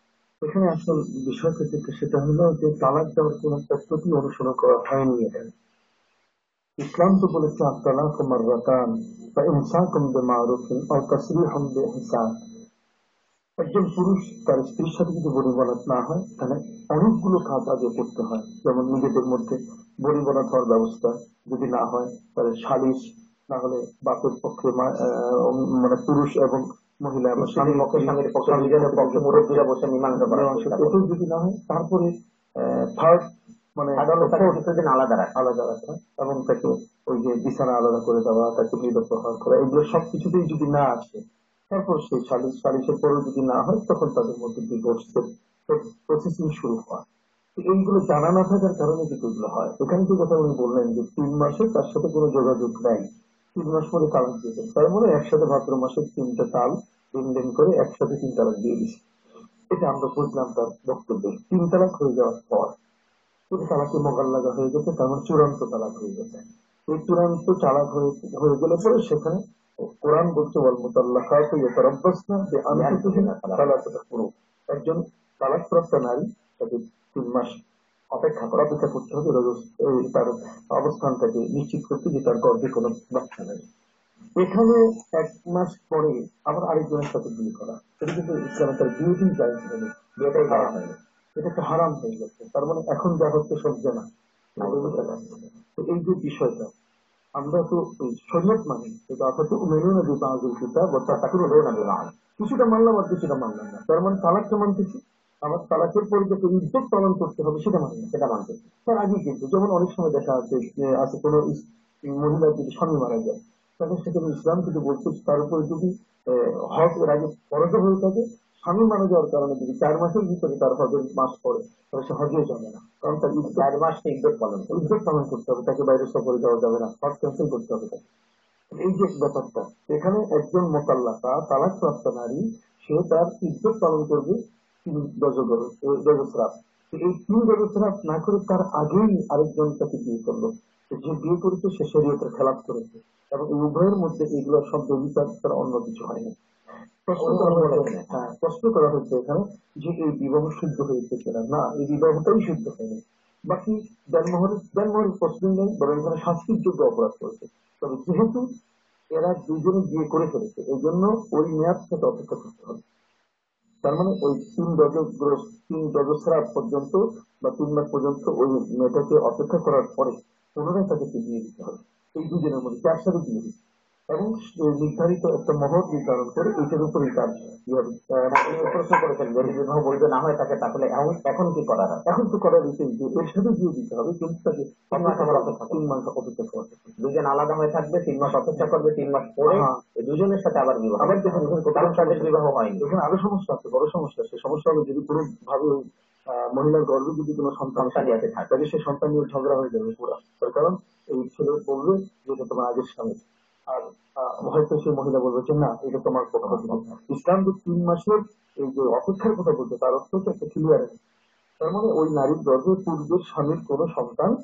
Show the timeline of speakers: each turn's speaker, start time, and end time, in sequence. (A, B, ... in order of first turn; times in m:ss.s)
0:00.4-0:05.5 A
0:06.8-0:12.3 A
0:13.6-0:33.2 A
0:27.4-0:31.0 B
0:33.8-0:34.6 A
0:34.0-0:35.3 B
0:35.4-0:47.0 A
0:47.6-0:59.0 A
0:59.7-1:02.8 A
1:03.5-1:17.6 A
1:12.7-1:13.8 B
1:18.1-1:18.6 B
1:18.5-1:23.6 A
1:24.4-1:29.9 A
1:30.2-1:31.0 B
1:30.5-1:30.8 A
1:31.4-1:34.0 A
1:34.6-1:35.2 B
1:34.6-1:36.7 A
1:37.4-1:48.1 A
1:41.1-1:42.1 B
1:48.1-1:48.7 B
1:48.9-2:03.7 A
2:03.4-2:04.9 B
2:04.7-2:08.0 A
2:08.7-2:26.3 A
2:27.1-2:38.4 A
2:27.2-2:28.3 B
2:39.2-2:42.8 A
2:43.8-2:53.6 A
2:54.1-2:59.6 A
2:58.3-3:02.0 B
3:02.1-3:07.0 A
3:04.9-3:05.9 B
3:07.0-3:12.8 B
3:09.5-3:09.8 A
3:11.0-3:31.0 A
3:17.8-3:18.6 B
3:26.4-3:27.0 B
3:31.6-3:34.4 A